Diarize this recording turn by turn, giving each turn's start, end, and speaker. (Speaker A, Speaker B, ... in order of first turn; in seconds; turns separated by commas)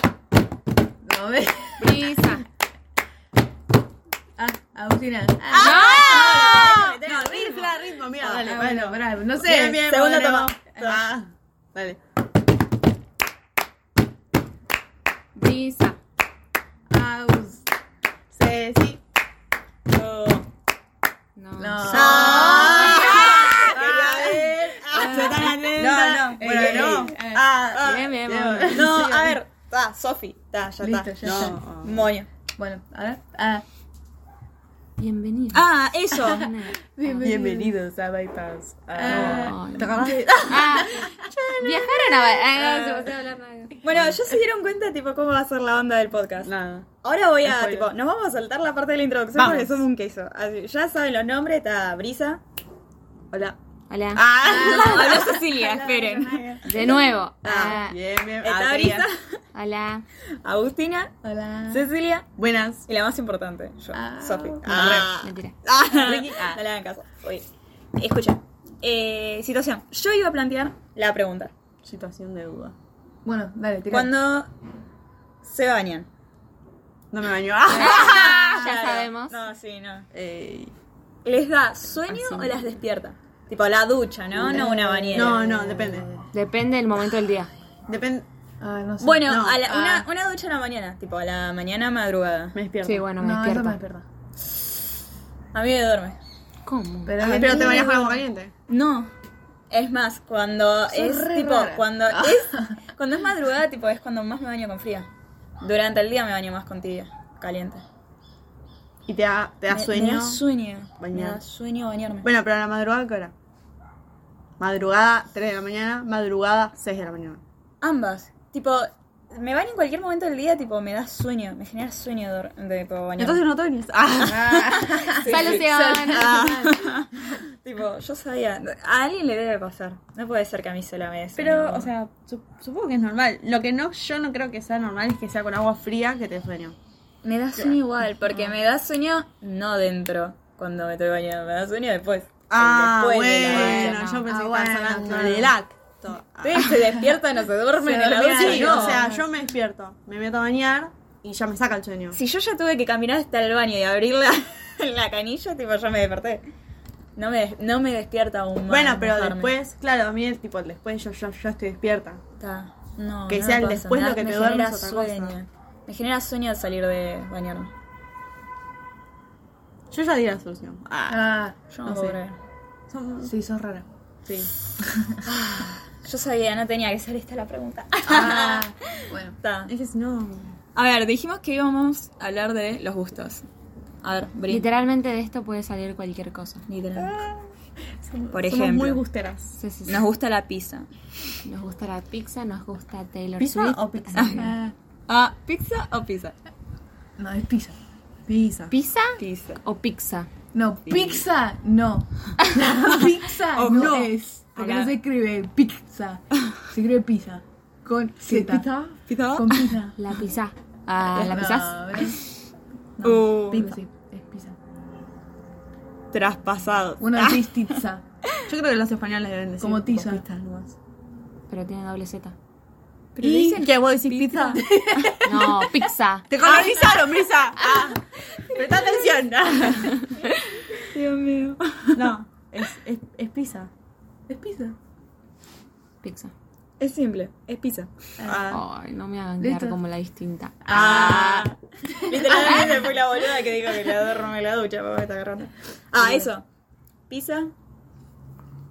Speaker A: 1.0-2.3, Speaker B: 1.8-2.5, Speaker A: 4.4-6.1, Speaker B: 5.5-6.7, Speaker C: 5.5-8.7, Speaker D: 5.6-12.0, Speaker A: 8.4-9.9, Speaker C: 9.8-11.0, Speaker B: 15.3-16.0, Speaker A: 16.9-17.6, Speaker D: 18.3-19.0, Speaker C: 19.9-20.5, Speaker B: 21.4-23.1, Speaker A: 21.6-25.7, Speaker C: 21.9-27.1, Speaker D: 21.9-29.3, Speaker A: 26.4-27.4, Speaker C: 27.7-32.3, Speaker B: 27.8-28.8, Speaker A: 28.8-29.3, Speaker A: 30.8-31.6, Speaker D: 31.2-32.1, Speaker A: 32.6-33.6, Speaker B: 35.0-37.3, Speaker C: 35.5-36.5, Speaker A: 36.2-36.4, Speaker A: 37.0-37.7, Speaker D: 37.2-42.8, Speaker A: 39.0-41.1, Speaker C: 39.0-39.6, Speaker B: 39.1-41.0, Speaker B: 41.5-43.8, Speaker C: 42.7-43.0, Speaker C: 43.8-46.5, Speaker D: 46.4-46.9, Speaker C: 47.0-52.4, Speaker D: 47.4-47.9, Speaker D: 49.3-49.9, Speaker D: 53.3-53.6, Speaker B: 53.9-54.2, Speaker D: 54.1-59.1, Speaker A: 54.4-55.3, Speaker C: 54.5-56.4, Speaker B: 56.6-58.0, Speaker C: 58.4-59.4, Speaker B: 59.5-60.0, Speaker C: 60.4-61.1, Speaker A: 61.2-61.8, Speaker C: 61.7-62.3, Speaker D: 62.4-62.9, Speaker C: 62.9-71.5, Speaker A: 63.9-64.9, Speaker D: 64.6-65.2, Speaker B: 64.8-65.5, Speaker D: 65.9-66.6, Speaker D: 71.8-72.7, Speaker A: 73.2-74.1, Speaker C: 73.9-74.5, Speaker C: 75.4-76.1, Speaker D: 77.1-78.3, Speaker B: 77.7-79.4, Speaker C: 77.7-80.1, Speaker D: 80.1-80.7, Speaker C: 81.2-85.4, Speaker D: 82.1-82.7, Speaker D: 84.3-86.1, Speaker A: 84.5-86.3, Speaker B: 86.3-87.5, Speaker D: 87.9-88.2, Speaker A: 88.6-90.1, Speaker C: 89.0-92.5, Speaker D: 89.3-89.6, Speaker D: 92.5-93.0, Speaker B: 92.8-93.8, Speaker A: 93.2-94.0, Speaker C: 95.5-96.2, Speaker B: 96.7-97.4, Speaker A: 97.0-98.2, Speaker D: 97.2-98.5, Speaker C: 97.3-97.9, Speaker C: 98.7-99.1, Speaker C: 99.7-105.1, Speaker D: 100.9-101.9, Speaker C: 105.6-107.8, Speaker D: 109.0-110.4, Speaker C: 109.7-112.3, Speaker D: 111.0-111.4, Speaker D: 112.2-113.3, Speaker D: 114.6-117.4, Speaker C: 117.8-123.4, Speaker D: 123.2-124.9, Speaker C: 124.2-131.9, Speaker A: 124.4-126.7, Speaker B: 125.2-126.4, Speaker D: 131.3-136.8, Speaker C: 137.2-144.0, Speaker D: 137.6-138.6, Speaker D: 142.5-146.8, Speaker B: 143.4-144.3, Speaker A: 143.5-145.6, Speaker C: 146.4-149.1, Speaker A: 146.7-147.1, Speaker A: 147.8-149.3, Speaker D: 148.3-152.2, Speaker C: 152.1-156.4, Speaker C: 157.2-159.6, Speaker D: 158.7-162.2, Speaker C: 162.4-167.7, Speaker D: 163.3-165.4, Speaker D: 169.9-172.2, Speaker A: 171.1-172.1, Speaker C: 171.7-172.4, Speaker D: 172.9-173.3, Speaker A: 173.2-173.8, Speaker D: 174.2-174.5, Speaker A: 174.8-175.2, Speaker C: 175.2-178.7, Speaker D: 178.1-178.4, Speaker A: 178.1-179.4, Speaker C: 179.4-179.7, Speaker D: 179.7-180.6, Speaker C: 180.7-183.4, Speaker C: 184.0-184.7, Speaker B: 184.5-186.6, Speaker C: 186.7-187.2, Speaker D: 186.9-187.4, Speaker D: 188.0-189.6, Speaker C: 188.3-189.0, Speaker B: 189.6-190.1, Speaker C: 189.9-190.9, Speaker B: 191.4-194.6, Speaker D: 193.4-194.7, Speaker C: 194.1-194.6, Speaker C: 195.1-196.3, Speaker A: 197.2-197.8, Speaker D: 198.2-198.7, Speaker B: 198.7-200.3, Speaker C: 199.2-199.6, Speaker A: 200.5-210.0, Speaker C: 200.8-201.2, Speaker D: 203.5-204.1, Speaker C: 203.6-205.0, Speaker C: 208.2-209.8, Speaker B: 209.9-212.0, Speaker C: 211.1-212.1, Speaker A: 211.3-212.2, Speaker C: 213.0-213.8, Speaker A: 213.0-214.6, Speaker C: 216.1-217.7, Speaker A: 217.0-218.0, Speaker D: 218.4-220.7, Speaker A: 219.6-220.2, Speaker B: 221.5-222.3, Speaker C: 223.2-224.6, Speaker D: 223.2-225.1, Speaker A: 224.5-225.4, Speaker B: 225.2-226.3, Speaker D: 226.3-228.0, Speaker C: 226.4-226.9, Speaker D: 228.5-229.9, Speaker C: 228.7-228.9, Speaker C: 230.7-232.1, Speaker D: 231.9-233.7, Speaker A: 234.3-234.7, Speaker B: 236.0-236.3, Speaker C: 236.8-237.9, Speaker A: 238.2-238.5, Speaker D: 238.2-238.6, Speaker B: 238.5-241.4, Speaker A: 239.4-239.8, Speaker A: 240.6-242.6, Speaker C: 240.7-246.4, Speaker B: 242.3-242.9, Speaker C: 247.1-247.5